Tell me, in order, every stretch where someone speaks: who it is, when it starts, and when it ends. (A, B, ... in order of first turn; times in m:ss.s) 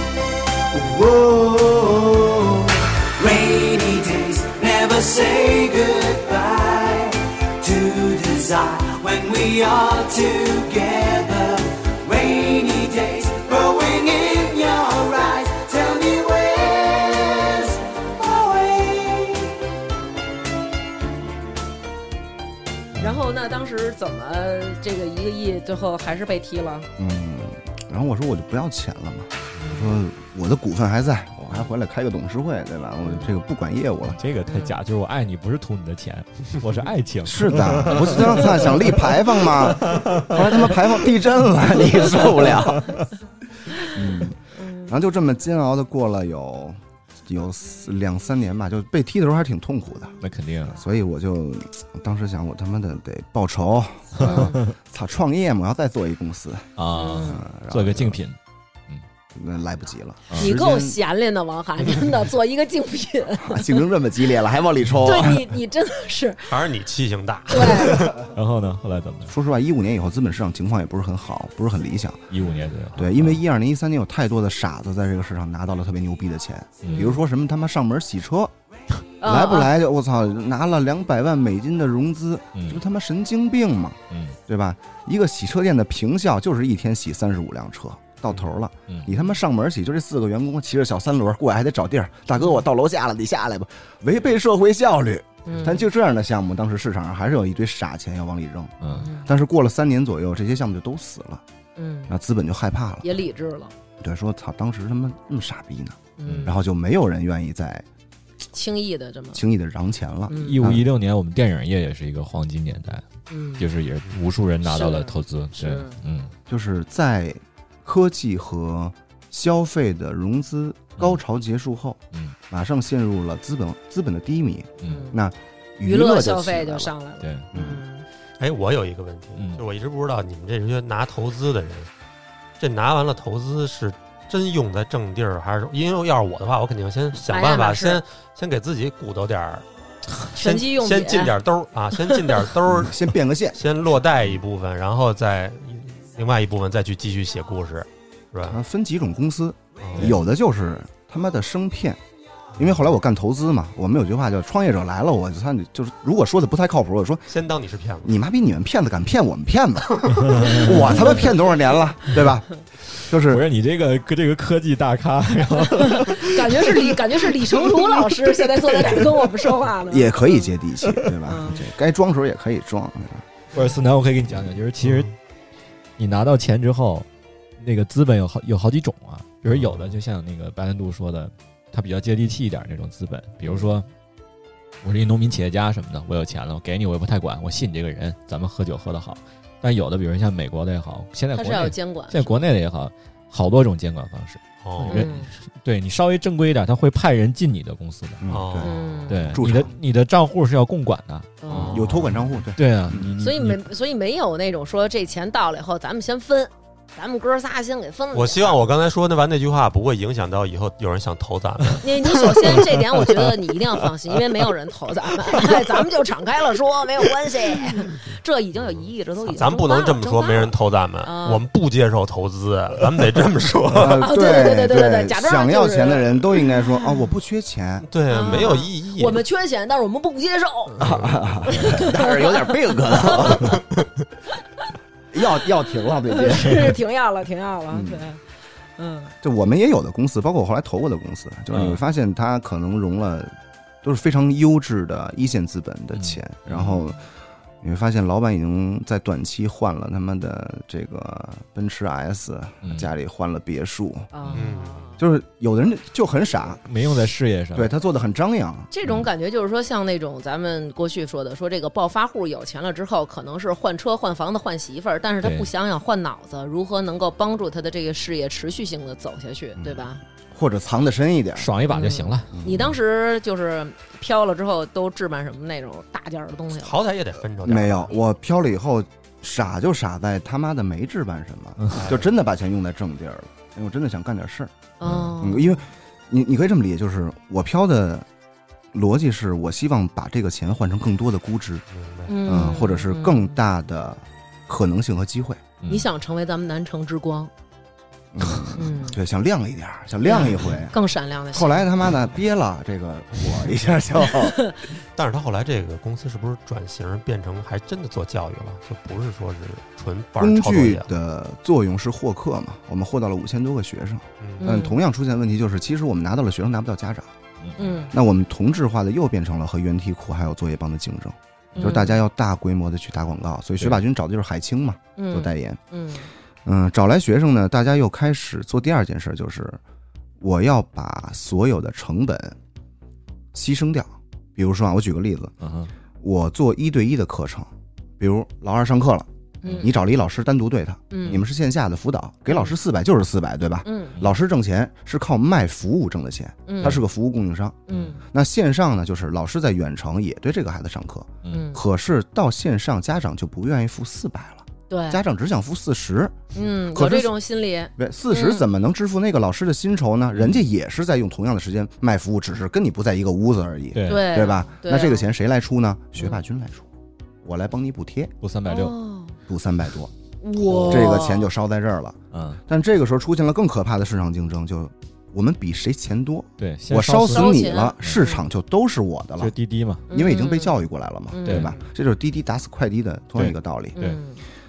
0:00.7-0:19.6 A
0:23.0-0:23.2 B
0:23.0-0:26.9 C
0:27.0-0:34.2 D
0:29.6-0:29.9 C
0:33.0-0:33.3 C
0:34.1-0:43.1 B
0:34.4-0:34.8 C
0:37.2-0:43.0 D
0:43.8-0:58.2 D
0:44.5-0:45.0 C
0:50.2-0:50.8 B
0:54.2-0:54.7 B
0:54.2-0:54.6 C
0:56.8-0:58.4 B
0:56.9-0:57.4 C
0:59.3-1:01.0 D
1:00.4-1:03.8 C
1:03.4-1:05.6 D
1:05.0-1:06.6 C
1:06.5-1:08.3 E
1:07.5-1:08.0 C
1:08.0-1:09.3 B
1:09.3-1:12.3 D
1:12.3-1:13.4 B
1:13.0-1:18.5 D
1:16.8-1:17.1 B
1:16.9-1:17.2 C
1:19.2-1:19.7 C
1:19.2-1:41.4 D
1:22.6-1:22.8 B
1:24.1-1:24.4 B
1:32.4-1:32.6 C
1:35.5-1:35.9 C
1:38.8-1:39.1 B
1:38.9-1:39.3 C
1:41.8-1:42.1 C
1:42.1-1:43.2 D
1:43.0-1:43.7 C
1:44.0-1:47.8 D
1:46.2-1:46.6 C
1:46.2-1:46.5 B
1:48.5-1:49.4 C
1:49.3-1:50.9 D
1:50.3-1:50.6 C
1:50.4-1:53.1 B
1:53.3-1:53.7 C
1:53.6-1:56.3 B
1:54.6-1:56.0 C
1:56.5-2:06.9 D
2:04.8-2:05.1 B
2:04.8-2:05.2 C
2:05.8-2:08.1 C
2:07.2-2:07.5 B
2:07.5-2:07.8 D
2:08.4-2:11.9 E
2:09.4-2:09.6 B
2:12.6-2:19.7 E
2:17.3-2:18.0 C
2:20.2-2:23.0 E
2:20.3-2:21.3 C
2:22.0-2:22.3 C
2:22.7-2:23.6 D
2:23.5-2:28.6 E
2:28.4-2:32.0 D
2:29.8-2:30.2 E
2:32.6-2:37.3 D
2:37.3-2:38.2 E
2:38.0-2:43.5 D
2:40.3-2:41.1 B
2:43.2-2:49.3 B
2:45.8-2:50.5 C
2:49.9-2:53.3 D
2:51.3-2:51.6 C
2:53.5-2:55.1 B
2:54.8-2:55.1 E
2:56.0-2:57.1 B
2:57.6-3:03.9 B
2:59.6-2:59.9 E
3:04.8-3:18.3 B
3:11.3-3:12.4 C
3:14.6-3:15.1 E
3:14.9-3:15.3 C
3:18.2-3:19.7 D
3:18.3-3:18.8 E
3:18.6-3:19.4 C
3:19.1-3:23.6 B
3:21.4-3:21.8 C
3:21.5-3:22.0 E
3:21.7-3:23.1 D
3:23.1-3:28.6 C
3:28.1-3:31.9 E
3:31.8-3:41.4 C
3:32.4-3:33.6 B
3:35.2-3:35.7 B
3:39.3-3:44.1 E
3:43.7-3:47.9 D
3:43.8-3:47.0 C
3:47.8-3:49.2 E
3:48.1-3:50.8 C
3:50.8-3:51.2 E
3:50.8-3:53.6 D
3:51.5-3:53.6 C
3:53.4-3:53.9 E
3:55.1-3:56.8 D
3:55.9-3:58.2 C
3:57.7-3:58.1 D
3:58.8-3:59.1 C
3:59.2-4:07.0 D
4:01.5-4:01.8 B
4:06.0-4:06.8 B
4:07.6-4:14.1 D
4:12.6-4:12.9 B
4:14.1-4:15.0 C
4:14.3-4:14.8 E
4:15.0-4:16.6 D
4:16.7-4:17.7 B
4:17.5-4:18.7 D
4:18.7-4:30.0 C
4:25.2-4:25.5 B
4:29.6-4:31.5 D
4:31.4-4:32.6 B
4:31.7-4:36.8 C
4:32.3-4:32.7 D
4:36.6-4:38.0 E
4:37.4-4:44.5 D
4:41.7-4:42.1 E
4:44.8-4:45.6 C
4:44.8-4:45.1 B
4:45.2-4:48.1 D
4:48.7-4:51.6 D
4:51.7-4:52.2 E
4:52.1-4:53.4 C
4:52.2-4:55.4 D
4:55.6-4:55.9 B
4:55.7-4:57.3 C
4:58.1-5:00.8 D
4:58.5-4:59.0 C
5:00.0-5:02.0 C
5:01.3-5:04.4 D
5:04.2-5:04.6 C
5:05.0-5:10.9 E
5:10.2-5:17.1 D
5:14.2-5:14.5 E
5:14.4-5:14.8 C
5:17.4-5:17.8 B
5:17.6-5:17.9 C
5:17.9-5:25.6 D
5:21.6-5:22.0 C
5:25.0-5:26.1 C
5:26.4-5:29.6 D
5:30.2-5:32.4 D
5:33.3-5:35.3 D
5:35.4-5:35.7 B
5:36.0-5:57.1 D
5:39.4-5:39.7 C
5:39.4-5:39.7 B
5:40.9-5:41.2 C
5:42.3-5:42.5 C
5:43.6-5:44.0 C
5:46.5-5:46.8 C
5:47.7-5:48.0 C
5:51.3-5:51.6 C
5:54.7-5:55.0 C
5:56.3-5:58.4 C
5:57.8-6:06.7 D
6:00.2-6:00.4 B
6:03.7-6:04.3 B
6:03.9-6:05.1 C
6:07.2-6:08.1 D
6:08.2-6:08.8 B
6:08.5-6:09.2 C
6:09.3-6:19.3 D
6:10.2-6:11.3 C
6:10.7-6:11.0 B
6:12.1-6:12.4 B
6:16.4-6:18.0 B
6:17.1-6:18.2 C
6:19.2-6:19.9 B
6:19.9-6:20.6 C
6:19.9-6:23.8 D
6:21.1-6:21.7 C
6:21.3-6:21.5 B
6:23.2-6:24.0 B
6:23.8-6:24.2 C